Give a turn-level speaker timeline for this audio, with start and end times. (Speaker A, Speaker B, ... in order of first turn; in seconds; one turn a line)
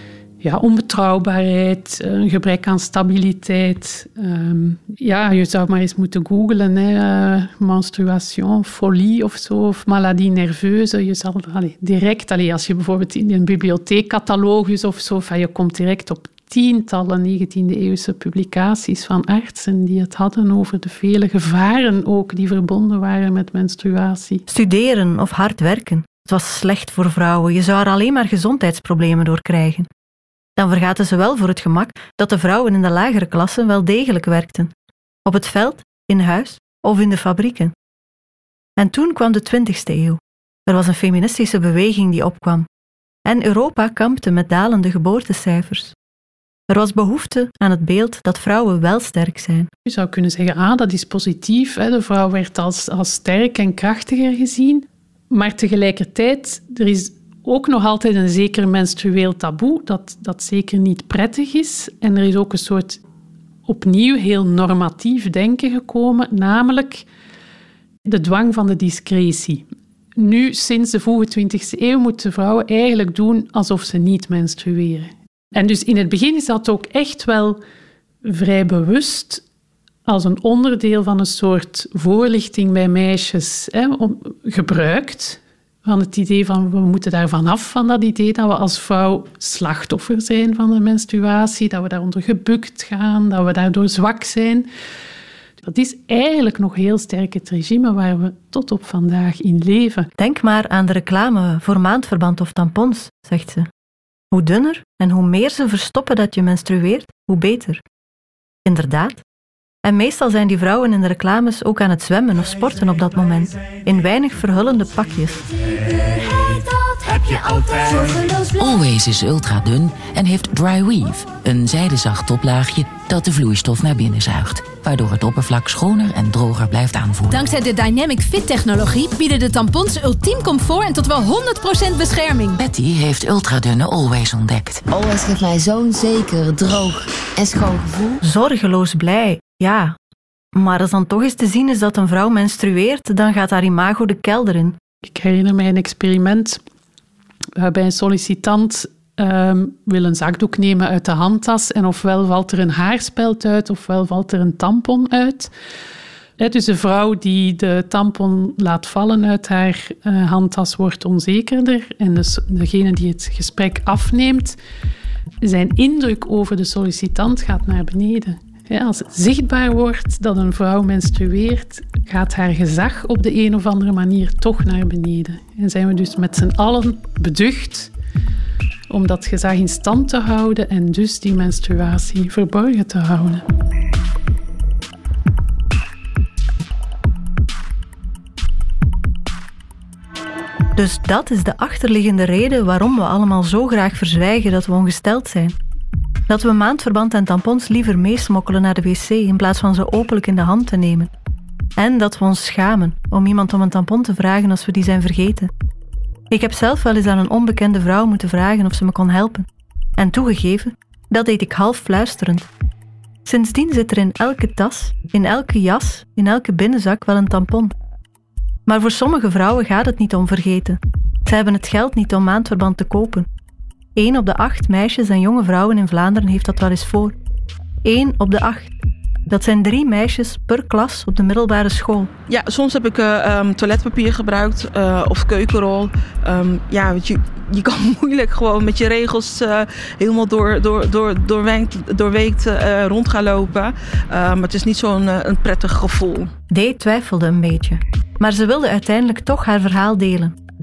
Speaker A: 0.4-24.4
Speaker B: 24.5-29.9
Speaker B: 30.6-34.7
Speaker B: 35.2-37.7
Speaker B: 38.8-42.7
Speaker B: 43.2-45.9
Speaker B: 46.7-49.7
Speaker A: 49.8-63.0
Speaker A: 63.7-67.0
Speaker A: 68.0-69.7
Speaker A: 70.2-77.6
Speaker A: 78.2-79.4
Speaker A: 80.0-94.7
Speaker A: 95.6-100.1
Speaker B: 100.2-103.7
Speaker B: 104.3-107.8
Speaker B: 108.6-109.2
Speaker B: 109.8-115.4
Speaker C: 118.5-127.4
Speaker D: 127.3-132.6
Speaker C: 132.6-134.8
Speaker E: 134.9-138.2
Speaker B: 138.2-139.9
Speaker B: 140.5-144.8
Speaker A: 145.0-146.6
Speaker A: 147.6-155.5
Speaker A: 156.4-164.6
Speaker A: 165.4-177.9
Speaker A: 178.9-183.4
Speaker B: 190.7-195.5
Speaker B: 196.3-201.1
Speaker B: 201.8-205.5
Speaker B: 206.3-209.4
Speaker B: 210.0-212.4
Speaker B: 213.2-217.7
Speaker B: 218.7-223.3
Speaker B: 223.9-227.1
Speaker B: 227.8-228.8
Speaker B: 229.3-232.1
Speaker F: 232.3-246.3
Speaker B: 246.5-250.4